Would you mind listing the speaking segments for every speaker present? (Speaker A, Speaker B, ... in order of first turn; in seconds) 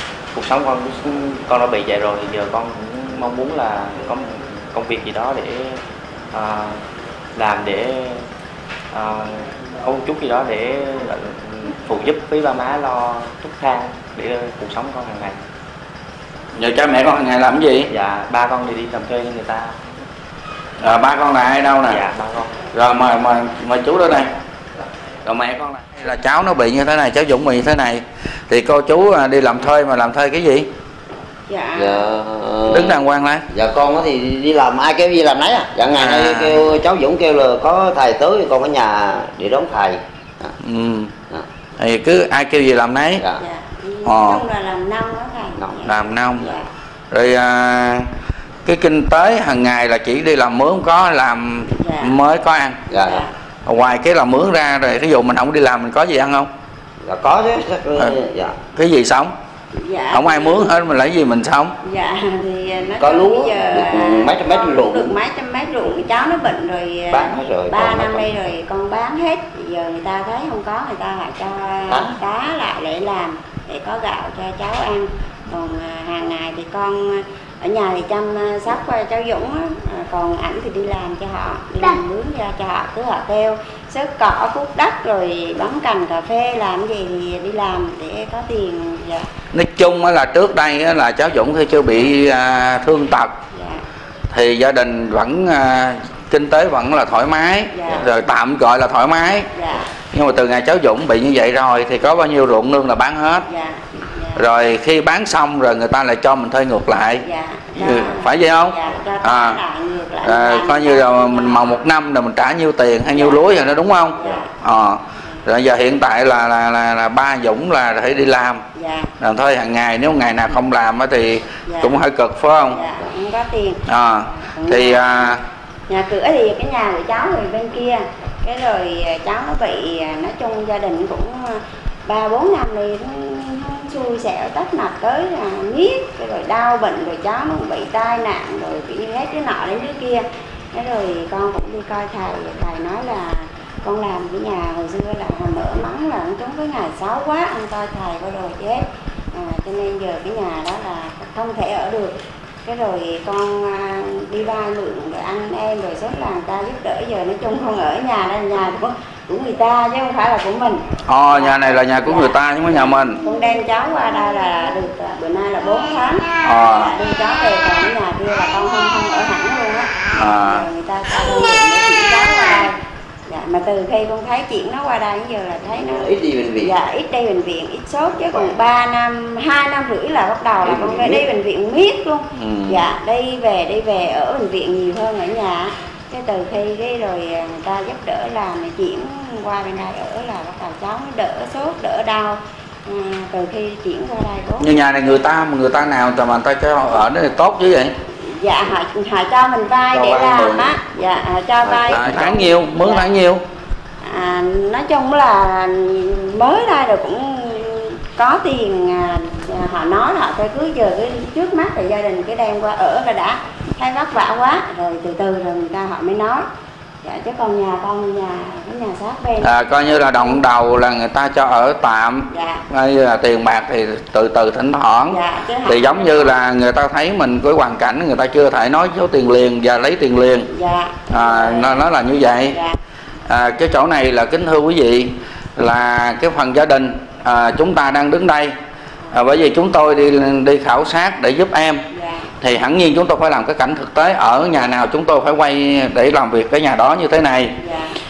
Speaker A: 0.3-5.8, 6.3-6.8, 7.3-8.2, 8.9-15.4, 17.9-19.8, 21.9-22.6
Speaker B: 16.6-17.9, 20.8-22.0, 22.7-24.3, 25.2-30.7, 32.7-33.4, 35.9-36.6, 40.6-41.1, 41.8-43.2, 44.0-44.4, 45.9-46.5, 47.1-48.1, 48.6-52.8, 53.6-56.5, 58.7-59.3, 60.1-61.8, 89.5-93.3, 94.3-99.5, 100.1-103.5, 104.3-107.2, 107.8-109.6, 110.2-118.6, 119.2-122.8, 123.9-125.4, 161.1-163.2, 166.4-166.9, 170.1-170.7, 182.3-182.9, 194.6-197.9, 201.7-203.4, 219.4-230.5, 231.1-232.6, 233.3-238.5, 239.1-241.9, 242.4-247.6
Speaker C: 31.5-32.1, 43.4-46.6, 51.8-52.1, 52.9-53.3, 59.7-60.7, 61.8-89.3, 93.5-93.8, 97.7-98.0, 99.5-99.9, 103.5-104.4, 107.2-111.8, 113.1-113.4, 114.1-114.5, 118.7-119.1, 121.7-121.9, 122.7-125.3, 125.9-172.7, 173.3-194.7, 198.1-203.1, 204.0-216.5, 217.0-220.4, 222.3-222.6, 225.1-226.2, 230.5-231.9, 232.4-232.8, 241.9-242.3, 247.6-247.9
Speaker D: 31.8-33.0, 33.5-40.5, 52.9-53.2, 57.0-58.6, 63.0-65.2, 67.1-68.2, 71.9-72.2, 175.8-176.7, 178.3-178.6, 180.6-181.2, 199.9-200.7